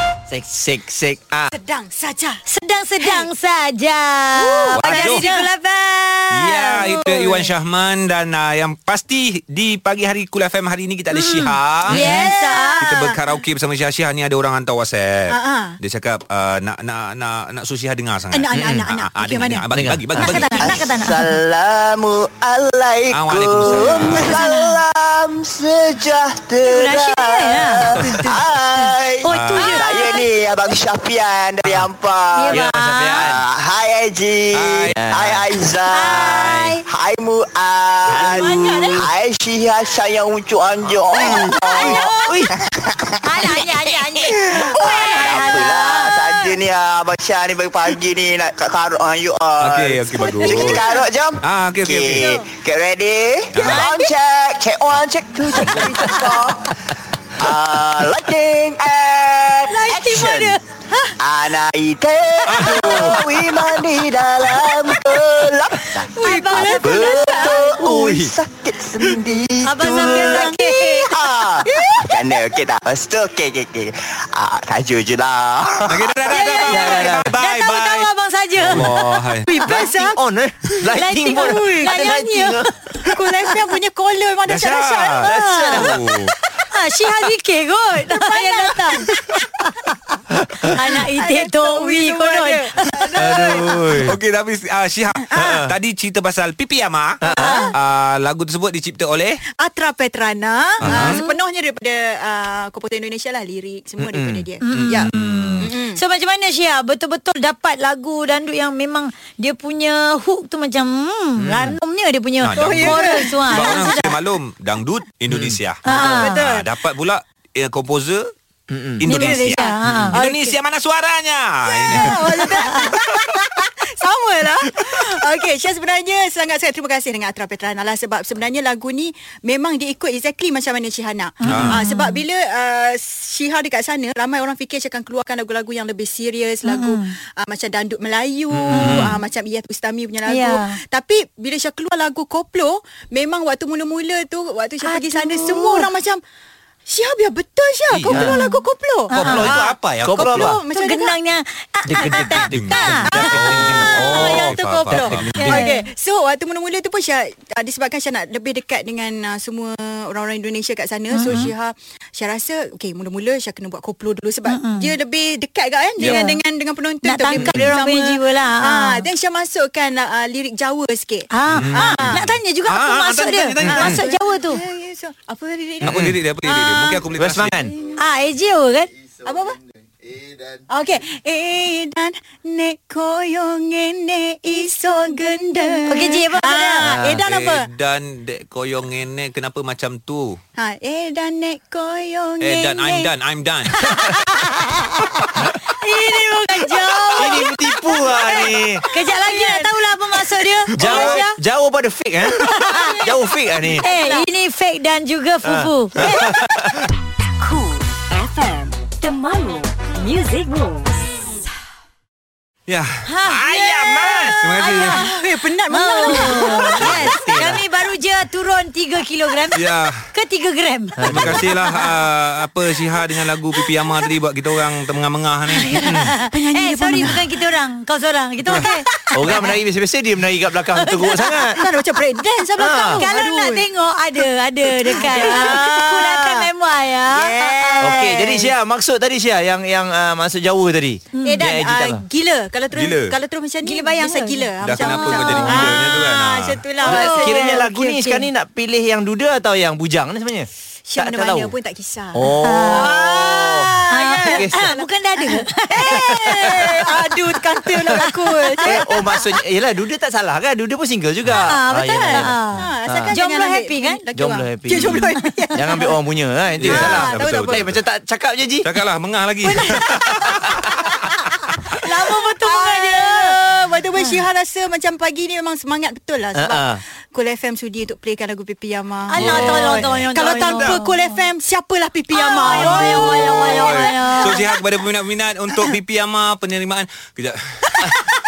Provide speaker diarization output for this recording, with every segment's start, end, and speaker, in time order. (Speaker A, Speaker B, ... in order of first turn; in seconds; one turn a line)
Speaker A: 0.3-1.5
Speaker B: 1.5-2.4
Speaker C: 2.5-7.5
Speaker B: 3.0-3.3
Speaker B: 4.3-5.5
Speaker D: 4.7-5.3
Speaker D: 6.3-12.0
Speaker C: 11.1-12.8
Speaker B: 11.9-13.2
Speaker D: 12.8-20.8
Speaker B: 15.3-15.8
Speaker B: 18.3-19.6
Speaker A: 18.5-18.9
Speaker A: 19.7-20.4
Speaker B: 20.2-20.8
Speaker C: 20.2-21.3
Speaker E: 20.7-32.6
Speaker D: 23.1-24.3
Speaker C: 24.2-24.7
Speaker C: 26.6-27.8
Speaker B: 28.0-28.3
Speaker C: 29.2-30.2
Speaker D: 29.3-29.8
Speaker C: 32.4-33.1
Speaker A: 32.5-33.4
Speaker E: 33.1-43.6
Speaker D: 34.5-35.0
Speaker A: 34.9-35.5
Speaker C: 35.9-36.8
Speaker A: 36.2-36.7
Speaker A: 38.1-39.0
Speaker C: 38.3-39.0
Speaker D: 40.9-41.3
Speaker A: 41.2-42.5
Speaker C: 41.2-42.3
Speaker C: 43.2-46.5
Speaker E: 44.2-56.8
Speaker D: 49.6-50.8
Speaker B: 50.3-50.8
Speaker D: 51.4-52.2
Speaker D: 53.5-53.9
Speaker C: 53.6-54.1
Speaker D: 55.6-55.9
Speaker E: 57.4-60.6
Speaker C: 59.7-60.6
Speaker E: 61.2-76.0
Speaker D: 62.5-63.2
Speaker C: 62.6-63.0
Speaker B: 66.1-67.8
Speaker C: 66.2-68.2
Speaker A: 67.8-68.3
Speaker C: 69.6-71.1
Speaker B: 70.0-71.1
Speaker B: 71.6-72.0
Speaker D: 75.8-78.1
Speaker C: 76.3-78.9
Speaker A: 76.6-77.3
Speaker D: 78.6-79.5
Speaker B: 79.5-80.1
Speaker C: 79.6-79.9
Speaker A: 79.6-82.7
Speaker C: 80.9-82.7
Speaker B: 81.2-81.8
Speaker B: 83.0-86.0
Speaker D: 84.5-86.3
Speaker C: 85.2-85.8
Speaker C: 86.7-92.7
Speaker B: 88.0-89.4
Speaker A: 90.4-90.7
Speaker B: 90.9-93.8
Speaker A: 93.2-94.2
Speaker D: 93.3-99.4
Speaker B: 95.3-95.6
Speaker A: 95.3-95.7
Speaker A: 97.2-97.6
Speaker C: 97.3-97.7
Speaker B: 99.6-106.0
Speaker D: 100.8-101.2
Speaker C: 100.9-101.3
Speaker A: 104.0-104.5
Speaker C: 104.6-114.1
Speaker D: 104.7-105.7
Speaker A: 105.1-105.7
Speaker A: 111.4-111.8
Speaker D: 112.4-118.3
Speaker B: 112.5-114.1
Speaker A: 115.3-115.6
Speaker C: 115.8-116.4
Speaker B: 115.9-116.7
Speaker A: 118.7-119.0
Speaker D: 119.0-122.8
Speaker C: 119.0-120.2
Speaker B: 119.1-120.6
Speaker B: 121.9-146.2
Speaker C: 121.9-122.9
Speaker C: 131.4-132.2
Speaker D: 131.5-131.8
Speaker C: 136.6-137.1
Speaker A: 138.5-139.2
Speaker C: 138.7-139.0
Speaker C: 140.2-140.8
Speaker C: 144.8-145.9
Speaker B: 146.9-151.1
Speaker D: 147.9-148.3
Speaker C: 148.2-149.4
Speaker D: 149.1-150.6
Speaker A: 149.3-150.6
Speaker C: 150.7-153.1
Speaker A: 151.8-155.4
Speaker B: 151.9-152.5
Speaker D: 152.5-155.6
Speaker B: 153.1-172.2
Speaker C: 154.1-154.4
Speaker C: 155.4-155.8
Speaker C: 161.1-161.5
Speaker C: 164.5-164.9
Speaker C: 166.0-166.4
Speaker C: 167.0-169.1
Speaker A: 167.3-167.7
Speaker C: 171.3-174.6
Speaker D: 171.5-171.9
Speaker A: 171.6-172.0
Speaker D: 172.7-174.0
Speaker B: 173.6-176.0
Speaker D: 175.8-177.7
Speaker A: 175.8-176.2
Speaker C: 176.5-177.0
Speaker A: 177.1-177.7
Speaker C: 177.9-178.9
Speaker B: 179.2-179.6
Speaker B: 180.7-187.7
Speaker C: 185.7-186.8
Speaker A: 186.8-187.2
Speaker D: 187.2-190.4
Speaker B: 190.6-193.1
Speaker D: 192.4-193.8
Speaker B: 193.8-194.2
Speaker C: 194.0-197.5
Speaker B: 196.5-199.8
Speaker A: 197.2-198.8
Speaker C: 198.9-201.4
Speaker A: 200.7-203.8
Speaker D: 200.8-201.2
Speaker C: 202.4-202.9
Speaker B: 202.6-204.3
Speaker C: 203.8-206.3
Speaker A: 205.4-206.8
Speaker F: 207.4-211.0
Speaker D: 212.7-215.1
Speaker C: 213.0-215.1
Speaker A: 213.4-214.3
Speaker B: 214.6-216.8
Speaker C: 215.7-221.1
Speaker A: 216.7-217.6
Speaker D: 219.5-220.1
Speaker A: 221.0-221.5
Speaker D: 221.1-225.9
Speaker B: 225.7-227.4
Speaker C: 225.7-228.9
Speaker A: 225.8-226.1
Speaker B: 228.6-229.5
Speaker A: 229.1-231.6
Speaker C: 230.8-231.5
Speaker B: 231.5-233.7
Speaker A: 232.6-233.0
Speaker C: 232.6-238.4
Speaker B: 234.2-236.3
Speaker A: 235.0-236.0
Speaker B: 237.1-238.5
Speaker A: 237.8-242.0
Speaker C: 241.1-241.4
Speaker B: 241.2-248.1
Speaker D: 242.7-243.2
Speaker C: 243.6-245.9
Speaker D: 244.6-246.6
Speaker C: 246.8-248.2
Speaker A: 246.8-251.5
Speaker B: 250.9-259.2
Speaker A: 252.1-254.7
Speaker C: 252.4-256.8
Speaker A: 255.9-256.8
Speaker C: 258.0-258.6
Speaker A: 258.6-263.1
Speaker C: 261.4-264.0
Speaker B: 262.1-265.9
Speaker A: 264.1-268.7
Speaker C: 264.8-265.3
Speaker B: 266.6-267.7
Speaker D: 266.6-267.8
Speaker D: 268.6-270.7
Speaker B: 269.4-270.9
Speaker C: 271.8-273.4
Speaker B: 271.8-284.5
Speaker A: 276.3-276.8
Speaker C: 279.1-281.2
Speaker D: 279.2-280.8
Speaker C: 282.1-284.4
Speaker D: 282.5-287.9